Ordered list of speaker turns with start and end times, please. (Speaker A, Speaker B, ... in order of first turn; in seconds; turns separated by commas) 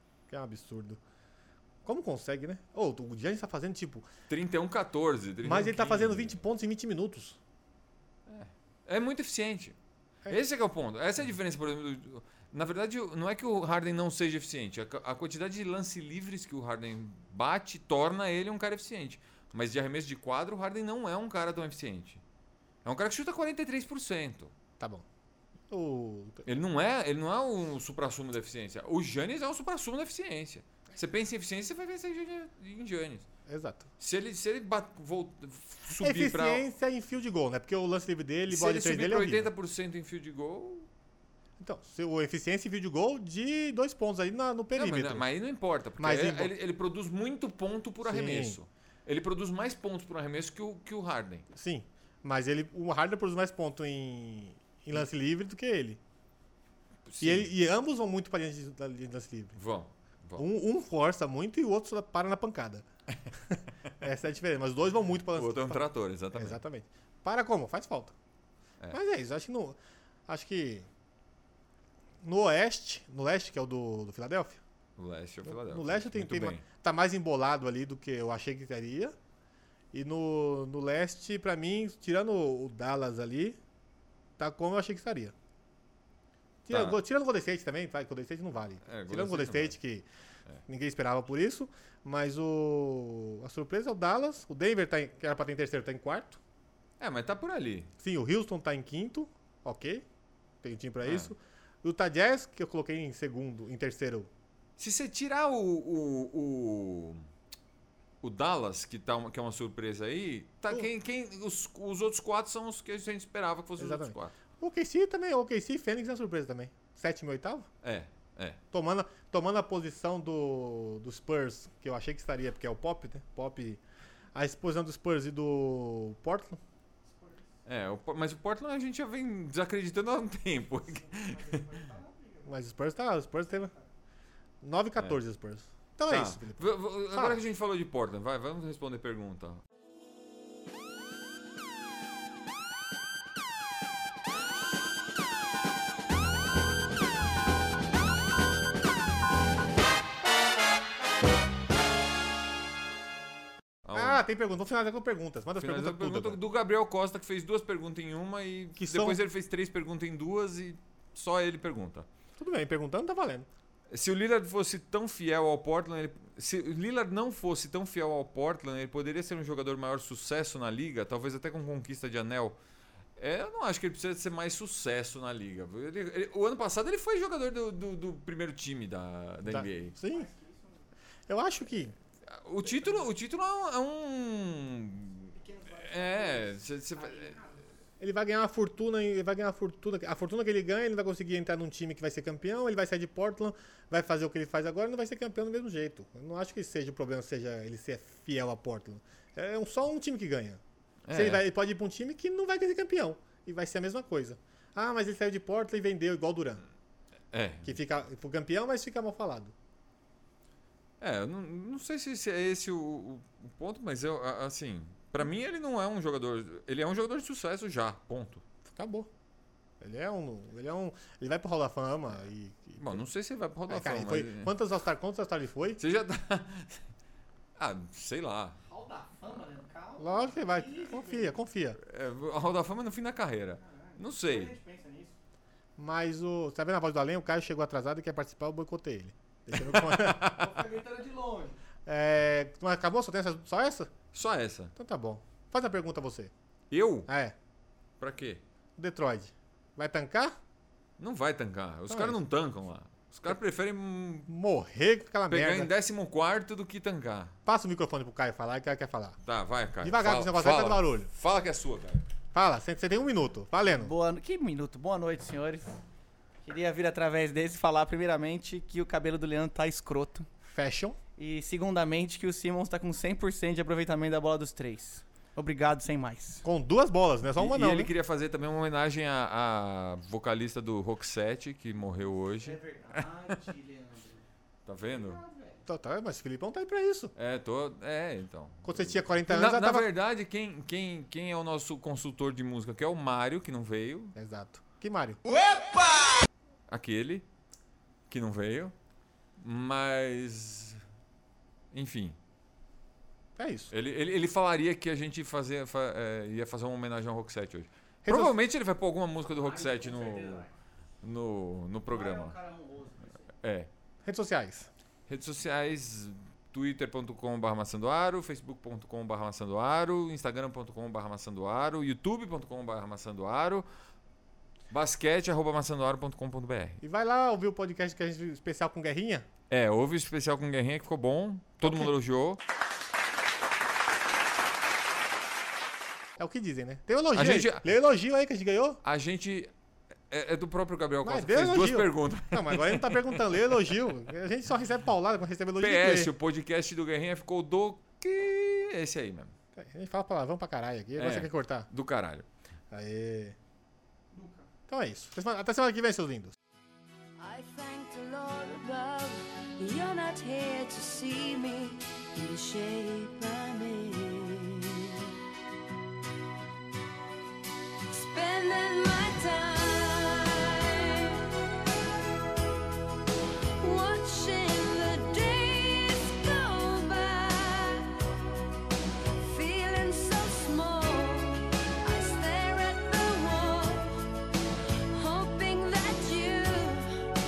Speaker A: 0.3-1.0, Speaker A: 1.8-4.1, Speaker B: 4.3-6.4, Speaker A: 5.4-7.4, Speaker B: 8.3-9.8, Speaker B: 10.3-22.2, Speaker B: 22.8-24.5, Speaker A: 24.8-25.0, Speaker A: 25.7-26.4, Speaker B: 26.4-33.3, Speaker A: 33.5-33.9, Speaker B: 34.0-36.6, Speaker A: 36.0-39.5, Speaker B: 38.5-40.9, Speaker A: 41.6-45.3, Speaker B: 44.7-51.5, Speaker A: 46.0-46.5, Speaker A: 48.0-48.6, Speaker A: 51.5-56.0, Speaker B: 57.1-57.5, Speaker A: 57.2-59.5, Speaker B: 59.5-60.5, Speaker A: 60.4-62.8, Speaker A: 63.5-68.1, Speaker B: 65.3-66.6, Speaker A: 68.9-70.9, Speaker A: 72.2-74.6, Speaker B: 75.0-76.6, Speaker A: 75.4-79.2, Speaker A: 79.9-83.6, Speaker A: 84.4-85.3, Speaker A: 86.7-90.1, Speaker B: 86.7-87.0, Speaker B: 88.8-89.8, Speaker A: 90.7-96.4, Speaker B: 97.0-97.9, Speaker A: 98.0-100.0, Speaker A: 100.6-104.3, Speaker B: 101.0-101.3, Speaker B: 104.8-107.2, Speaker B: 108.2-114.3, Speaker A: 113.8-117.7, Speaker B: 117.8-118.6, Speaker A: 118.7-123.8, Speaker A: 124.3-126.6, Speaker C: 127.0-127.5, Speaker B: 127.6-131.8, Speaker C: 130.8-132.5, Speaker A: 132.4-133.7, Speaker C: 133.5-133.8, Speaker A: 134.6-137.4, Speaker B: 136.1-139.6, Speaker B: 153.8-154.2, Speaker A: 153.9-156.4, Speaker B: 155.6-162.1, Speaker A: 158.8-159.2, Speaker A: 162.4-163.5, Speaker B: 163.9-172.6, Speaker B: 173.2-179.9, Speaker A: 179.4-180.3, Speaker C: 180.0-180.8, Speaker A: 181.3-181.9, Speaker B: 182.2-187.4, Speaker C: 185.3-187.7, Speaker A: 188.0-200.6, Speaker B: 201.1-201.4, Speaker A: 201.1-206.6, Speaker B: 207.3-207.8, Speaker A: 207.6-209.5, Speaker B: 211.0-218.4, Speaker A: 218.6-219.1, Speaker A: 219.8-223.0, Speaker B: 222.8-224.5, Speaker A: 223.7-225.8, Speaker B: 225.8-226.8, Speaker B: 227.6-228.6, Speaker C: 228.6-231.4, Speaker A: 230.0-231.8, Speaker B: 231.8-234.6, Speaker C: 233.6-235.2, Speaker A: 235.8-240.3, Speaker B: 239.5-240.5, Speaker C: 240.2-241.6, Speaker A: 241.8-243.9, Speaker B: 244.1-244.7, Speaker A: 244.8-246.3, Speaker B: 246.7-247.1, Speaker A: 247.1-247.3, Speaker B: 248.0-248.4, Speaker A: 248.8-250.4, Speaker B: 251.0-254.3, Speaker A: 251.9-252.2, Speaker A: 253.1-253.4, Speaker A: 254.3-255.7, Speaker B: 255.3-257.4, Speaker A: 257.4-259.2, Speaker B: 259.2-262.0, Speaker A: 259.8-261.1, Speaker A: 262.3-263.9, Speaker C: 263.7-265.8, Speaker C: 266.4-270.3, Speaker A: 270.5-271.0, Speaker C: 271.2-276.4, Speaker A: 276.4-277.9, Speaker B: 277.4-283.1, Speaker C: 282.4-284.2, Speaker B: 284.6-285.2, Speaker C: 284.9-285.6, Speaker A: 285.6-287.1, Speaker B: 287.1-294.1, Speaker A: 288.6-289.9, Speaker A: 294.1-295.2, Speaker B: 296.7-297.2, Speaker B: 298.1-298.7, Speaker B: 299.4-300.8, Speaker B: 301.7-302.2, Speaker A: 303.4-303.7, Speaker B: 303.7-310.5, Speaker A: 308.0-308.4, Speaker C: 309.3-310.5, Speaker B: 311.0-312.4, Speaker C: 311.9-313.2, Speaker B: 313.4-313.7, Speaker A: 314.0-314.7, Speaker B: 315.1-323.6, Speaker B: 324.7-326.8, Speaker A: 326.8-329.2, Speaker B: 329.5-332.4, Speaker A: 331.6-331.9, Speaker A: 336.2-338.8, Speaker B: 337.1-337.7, Speaker B: 338.8-339.5, Speaker B: 340.1-343.7, Speaker A: 341.0-346.1, Speaker B: 345.6-349.3, Speaker A: 349.5-351.7, Speaker B: 351.0-352.2, Speaker A: 352.7-353.4, Speaker C: 354.1-354.5, Speaker A: 354.7-356.4, Speaker D: 357.2-364.9, Speaker D: 367.9-371.3, Speaker D: 373.6-377.9, Speaker D: 379.2-384.0, Speaker D: 384.9-387.0